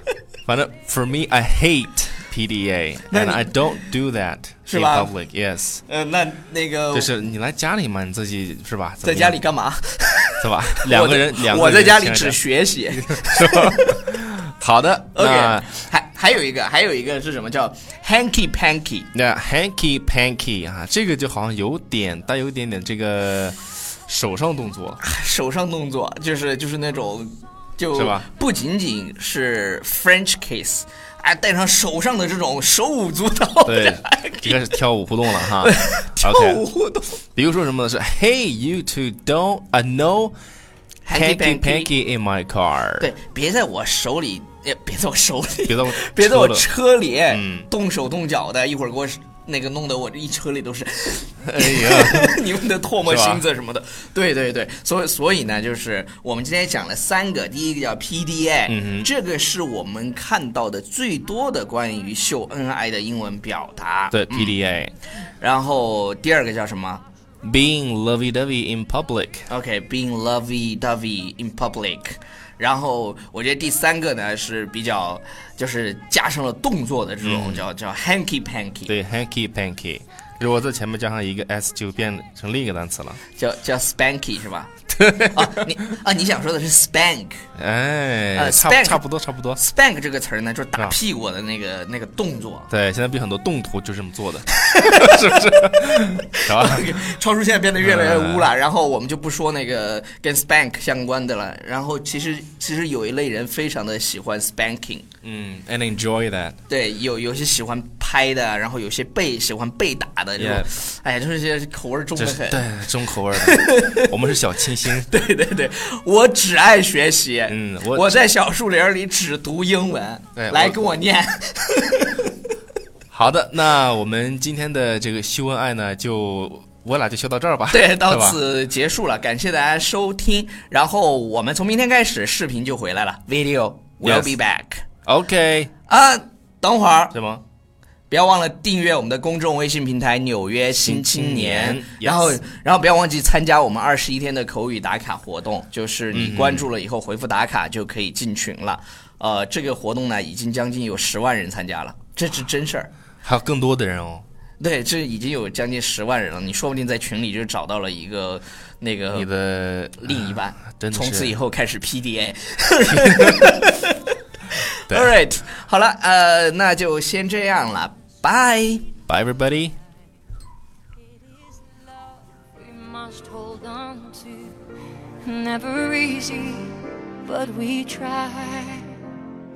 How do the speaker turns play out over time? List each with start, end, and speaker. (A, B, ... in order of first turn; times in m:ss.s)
0:00.5-0:05.8 A
0:03.1-0:03.6 B
0:04.7-0:05.1 B
0:05.9-0:07.1 B
0:06.9-0:09.4 A
0:09.0-0:14.0 B
0:10.4-0:12.4 A
0:13.0-0:15.7 A
0:15.1-0:19.1 B
0:19.1-0:25.0 A
0:25.0-0:34.6 B
0:27.9-0:28.3 A
0:33.7-0:36.6 A
0:35.6-0:37.2 B
0:37.4-0:40.4 A
0:41.1-0:41.9 B
0:41.1-0:43.1 A
0:43.0-1:04.5 B
0:45.7-0:46.7 A
0:47.3-0:47.7 A
0:51.4-0:52.4 A
0:53.0-0:53.4 A
0:58.7-0:59.1 A
1:04.1-1:04.9 A
1:05.4-1:07.0 B
1:07.4-1:09.5 A
1:09.5-1:18.9 B
1:17.2-1:17.6 A
1:18.9-1:23.2 A
1:23.4-1:27.4 B
1:25.0-1:25.6 A
1:27.6-1:29.6 A
1:28.4-1:29.0 B
1:29.6-1:32.7 B
1:32.7-1:37.2 A
1:34.7-1:35.6 B
1:36.4-1:45.1 B
1:37.8-1:38.5 A
1:45.2-1:46.6 A
1:46.7-1:52.6 B
1:50.4-1:50.7 A
1:52.2-1:55.1 A
1:53.3-1:54.1 B
1:54.9-2:02.3 B
1:57.5-1:58.2 A
2:00.4-2:00.9 A
2:03.1-2:08.4 A
2:07.7-2:14.8 B
2:14.0-2:14.4 A
2:15.1-2:15.7 A
2:15.9-2:17.2 B
2:17.1-2:17.4 A
2:18.1-2:32.9 B
2:20.8-2:22.4 A
2:26.1-2:26.7 A
2:33.2-2:34.2 A
2:34.6-2:39.3 B
2:39.1-2:41.4 A
2:40.0-2:44.0 B
2:42.9-2:43.5 A
2:44.8-2:48.9 B
2:44.9-2:45.1 A
2:49.1-2:49.8 A
2:52.6-2:54.6 C
2:55.2-2:59.0 C